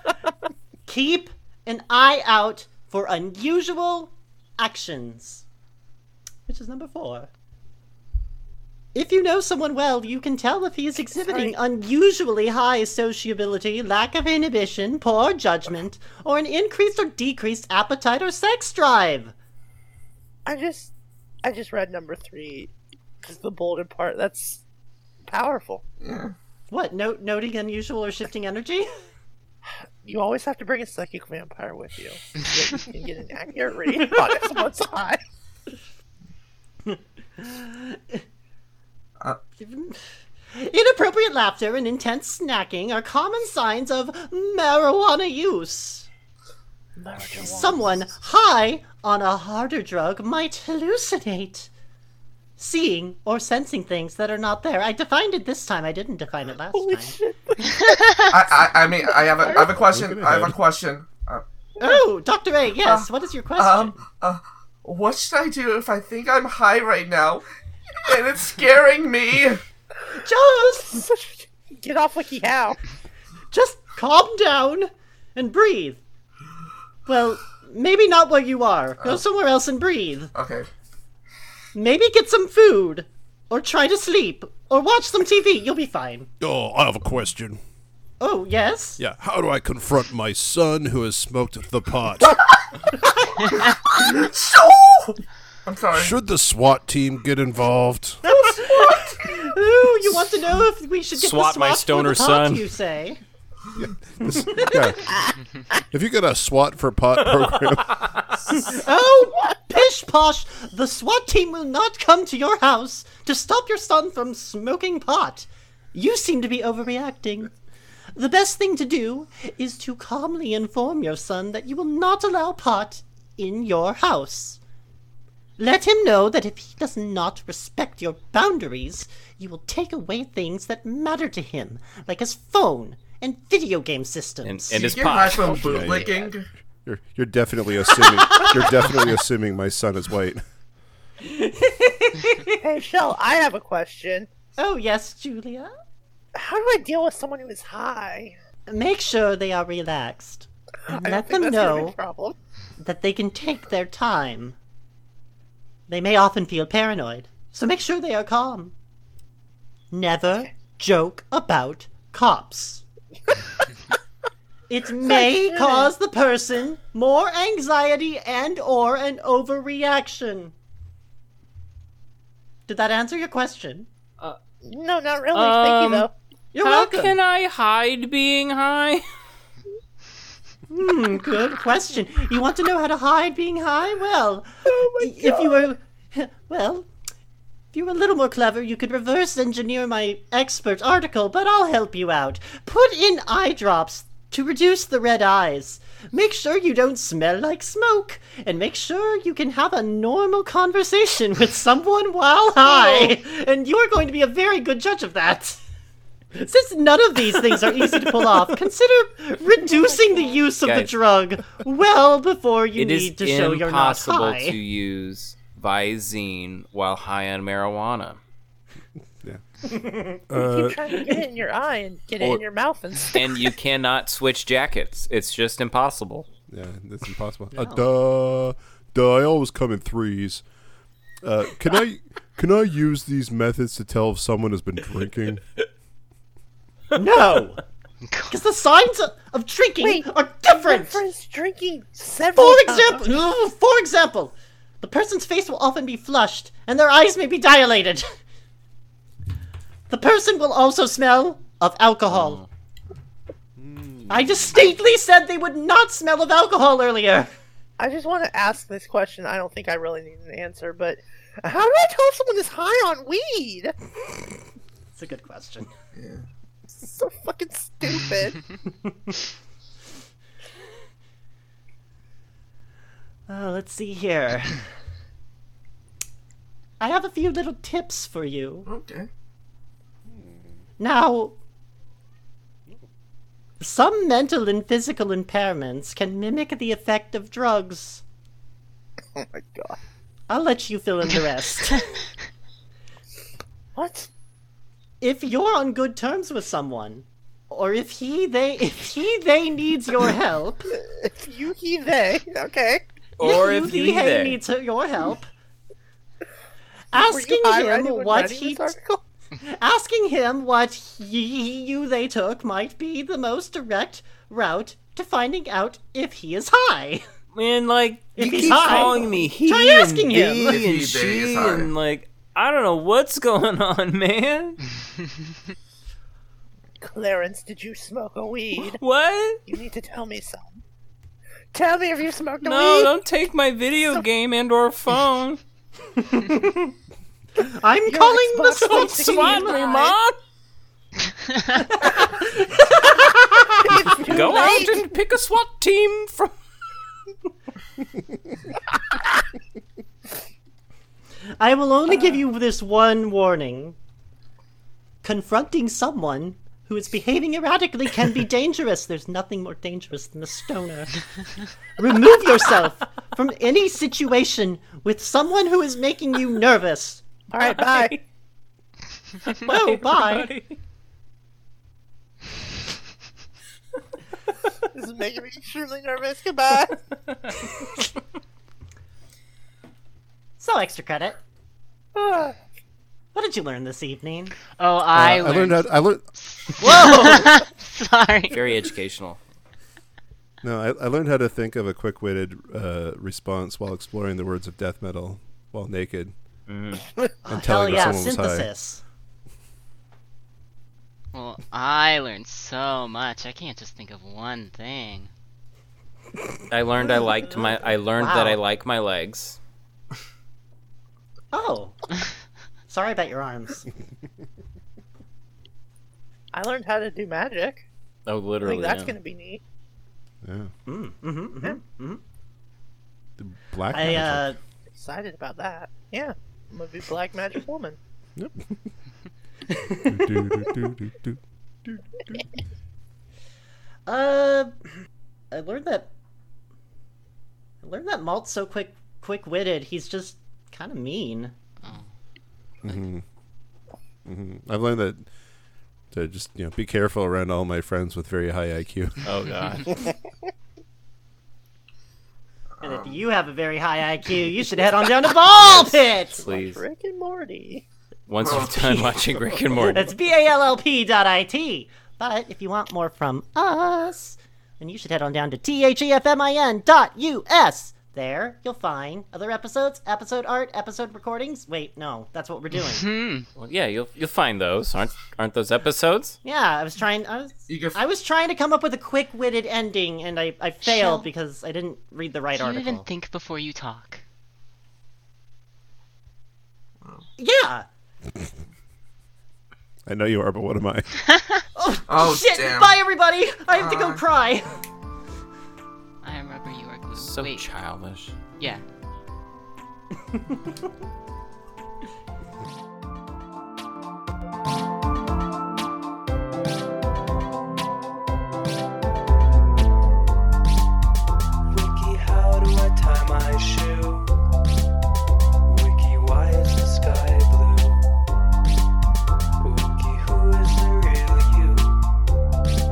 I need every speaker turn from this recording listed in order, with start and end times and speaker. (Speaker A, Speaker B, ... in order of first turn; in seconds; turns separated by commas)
Speaker A: 0.9-5.4, Speaker A: 6.5-7.3, Speaker A: 8.9-19.3, Speaker B: 11.2-11.6, Speaker B: 20.5-20.9, Speaker B: 21.4-22.7, Speaker B: 23.2-24.6, Speaker B: 25.3-25.8, Speaker C: 26.0-26.3, Speaker A: 26.7-28.9, Speaker B: 30.0-35.2, Speaker A: 36.9-38.2, Speaker A: 39.6-40.0, Speaker A: 40.5-46.1, Speaker B: 47.0-47.9, Speaker A: 47.4-51.7, Speaker A: 52.6-57.2, Speaker B: 56.7-58.4, Speaker C: 58.3-61.4, Speaker B: 59.0-59.8, Speaker D: 59.8-60.6, Speaker A: 61.8-64.0, Speaker C: 62.8-67.4, Speaker C: 68.0-69.6, Speaker A: 70.2-71.0, Speaker B: 70.5-72.8, Speaker A: 73.5-76.0, Speaker A: 77.1-80.3, Speaker C: 80.3-80.7, Speaker A: 81.8-86.3, Speaker D: 86.4-87.6, Speaker A: 88.2-89.0, Speaker D: 89.0-92.4, Speaker C: 93.5-96.1, Speaker D: 95.9-98.2, Speaker A: 98.2-103.2, Speaker E: 101.1-102.7, Speaker D: 103.8-105.1, Speaker A: 104.2-104.9, Speaker B: 105.1-105.8, Speaker D: 105.9-108.1, Speaker A: 108.5-117.5, Speaker A: 118.2-124.6, Speaker A: 125.6-135.0, Speaker E: 134.4-136.3, Speaker C: 134.7-136.5, Speaker D: 135.5-136.2, Speaker D: 136.8-140.4, Speaker A: 138.1-138.5, Speaker A: 141.2-142.6, Speaker B: 142.5-144.3, Speaker A: 144.6-145.7, Speaker B: 146.3-148.3, Speaker A: 148.7-152.0, Speaker B: 150.9-152.4, Speaker A: 152.8-154.6, Speaker A: 155.9-158.7, Speaker A: 159.9-162.8, Speaker A: 164.7-170.5, Speaker B: 165.0-165.9, Speaker A: 172.7-173.9, Speaker B: 174.6-176.1, Speaker E: 175.3-176.1, Speaker A: 176.5-177.2, Speaker E: 176.6-179.0, Speaker A: 180.7-184.5, Speaker B: 184.7-185.7, Speaker A: 185.0-186.9, Speaker A: 187.7-205.6, Speaker B: 202.6-203.2, Speaker A: 206.3-214.6, Speaker B: 209.8-210.4, Speaker E: 210.6-210.9, Speaker E: 212.8-218.2, Speaker A: 219.7-220.2, Speaker D: 220.3-220.8, Speaker B: 220.3-223.6, Speaker E: 223.0-226.3, Speaker D: 226.5-230.4, Speaker A: 227.6-227.9, Speaker D: 231.2-235.4, Speaker A: 236.9-237.6, Speaker F: 238.1-238.3, Speaker A: 238.3-241.0, Speaker B: 239.8-243.1, Speaker A: 242.4-248.1, Speaker A: 249.9-252.4, Speaker E: 252.1-252.5, Speaker D: 253.6-254.6, Speaker A: 254.1-257.3, Speaker B: 257.8-263.8, Speaker A: 264.9-265.7, Speaker C: 265.9-266.2, Speaker B: 266.7-268.4, Speaker A: 273.3-274.7, Speaker A: 276.8-278.7, Speaker C: 278.7-279.1, Speaker A: 280.8-281.4, Speaker A: 283.6-288.0, Speaker B: 289.1-289.8, Speaker A: 290.3-291.9, Speaker B: 293.8-294.1, Speaker A: 295.0-300.7, Speaker B: 300.7-302.8, Speaker E: 303.2-304.4, Speaker A: 303.2-305.3, Speaker A: 306.9-308.7, Speaker B: 306.9-309.0, Speaker A: 309.4-317.1, Speaker E: 317.3-324.6, Speaker A: 318.2-320.6, Speaker B: 318.6-319.2, Speaker C: 320.5-321.8, Speaker B: 326.8-328.8, Speaker E: 328.6-329.4, Speaker B: 329.5-330.6, Speaker B: 331.5-332.9, Speaker E: 332.4-335.4, Speaker A: 336.0-336.7, Speaker A: 337.4-339.6, Speaker B: 337.9-340.0, Speaker E: 338.7-340.2, Speaker A: 341.7-343.7, Speaker B: 343.6-344.9, Speaker E: 343.9-346.3, Speaker A: 351.4-353.8, Speaker A: 355.0-361.1, Speaker A: 361.8-367.0, Speaker B: 367.3-368.0, Speaker E: 367.4-368.0, Speaker E: 369.2-370.5, Speaker A: 369.4-370.3, Speaker B: 374.7-376.9, Speaker E: 377.1-377.5, Speaker A: 380.4-381.2, Speaker B: 381.9-382.4, Speaker A: 383.1-384.4, Speaker F: 384.5-388.5, Speaker D: 384.9-386.0, Speaker A: 386.6-387.4, Speaker E: 388.3-389.2, Speaker D: 390.4-396.1, Speaker E: 396.5-396.9, Speaker D: 397.3-398.5, Speaker A: 397.3-398.8, Speaker F: 401.1-405.1, Speaker E: 406.5-409.4, Speaker A: 408.0-408.4, Speaker A: 411.3-411.7, Speaker A: 412.7-413.7, Speaker B: 416.3-417.7, Speaker E: 418.1-418.9, Speaker B: 418.4-419.4, Speaker D: 420.2-420.5, Speaker A: 420.7-422.0, Speaker D: 423.2-424.3, Speaker A: 423.7-424.4, Speaker B: 424.7-427.8, Speaker D: 428.2-428.8, Speaker A: 429.5-429.9, Speaker D: 429.9-431.8, Speaker A: 433.9-434.5, Speaker A: 435.3-435.9, Speaker A: 437.6-441.3, Speaker D: 442.6-443.0, Speaker D: 444.1-445.1, Speaker D: 445.9-449.1, Speaker E: 449.0-449.8, Speaker C: 452.6-453.0, Speaker A: 452.6-456.2, Speaker E: 455.4-456.6, Speaker B: 455.4-457.6, Speaker E: 458.1-459.9, Speaker C: 458.2-458.8, Speaker A: 459.7-472.9, Speaker F: 472.6-473.3, Speaker E: 473.4-476.2, Speaker A: 476.2-482.9, Speaker C: 477.5-477.8, Speaker F: 480.6-481.1, Speaker F: 482.3-484.0, Speaker A: 487.2-487.7, Speaker D: 489.9-490.9, Speaker A: 491.6-494.6, Speaker C: 491.9-492.8, Speaker C: 493.5-494.0, Speaker F: 496.0-497.5, Speaker E: 496.9-498.2, Speaker F: 498.4-498.6, Speaker G: 511.5-514.2, Speaker G: 515.5-517.9, Speaker G: 519.4-521.8